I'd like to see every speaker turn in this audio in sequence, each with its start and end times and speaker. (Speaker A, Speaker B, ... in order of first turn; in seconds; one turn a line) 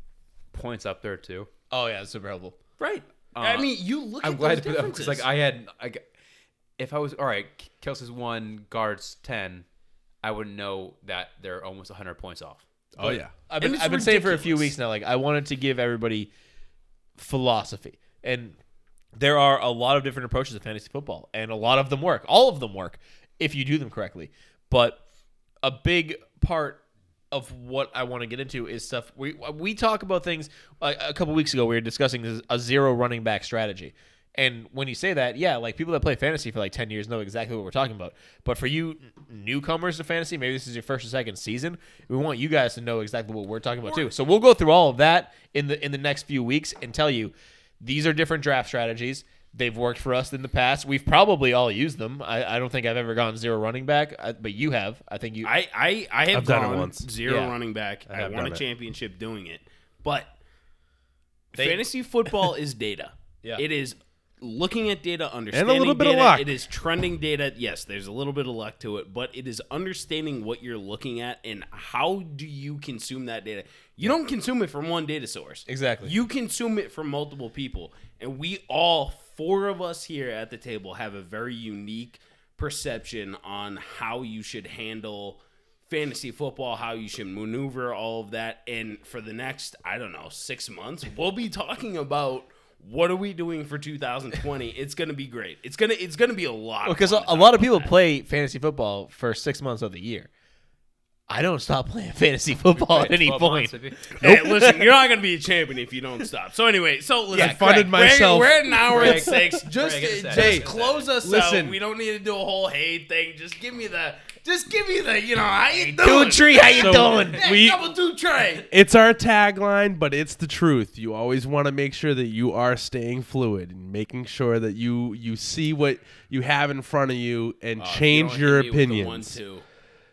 Speaker A: 0.5-1.5
Speaker B: 1.7-3.0
Speaker A: 3.3-6.0
Speaker C: 3.4-5.3
Speaker A: 6.8-9.6
Speaker A: 10.2-12.6
Speaker D: 13.0-13.3
Speaker B: 13.0-16.3
Speaker C: 13.6-14.7
Speaker B: 17.2-18.6
Speaker B: 19.1-25.0
Speaker B: 25.6-55.5
Speaker C: 55.4-60.3
Speaker D: 56.3-57.1
Speaker B: 57.2-57.5
Speaker D: 58.1-58.6
Speaker C: 61.5-97.9
Speaker B: 61.5-61.8
Speaker D: 65.5-66.5
Speaker B: 75.7-76.1
Speaker B: 96.8-100.3
Speaker B: 101.3-104.9
Speaker A: 102.7-104.1
Speaker C: 104.2-118.7
Speaker B: 107.3-107.9
Speaker D: 107.3-108.5
Speaker A: 108.9-111.1
Speaker B: 108.9-109.2
Speaker D: 110.3-110.7
Speaker D: 111.2-111.8
Speaker B: 115.7-117.4
Speaker D: 116.7-117.8
Speaker D: 118.7-129.4
Speaker C: 127.8-129.6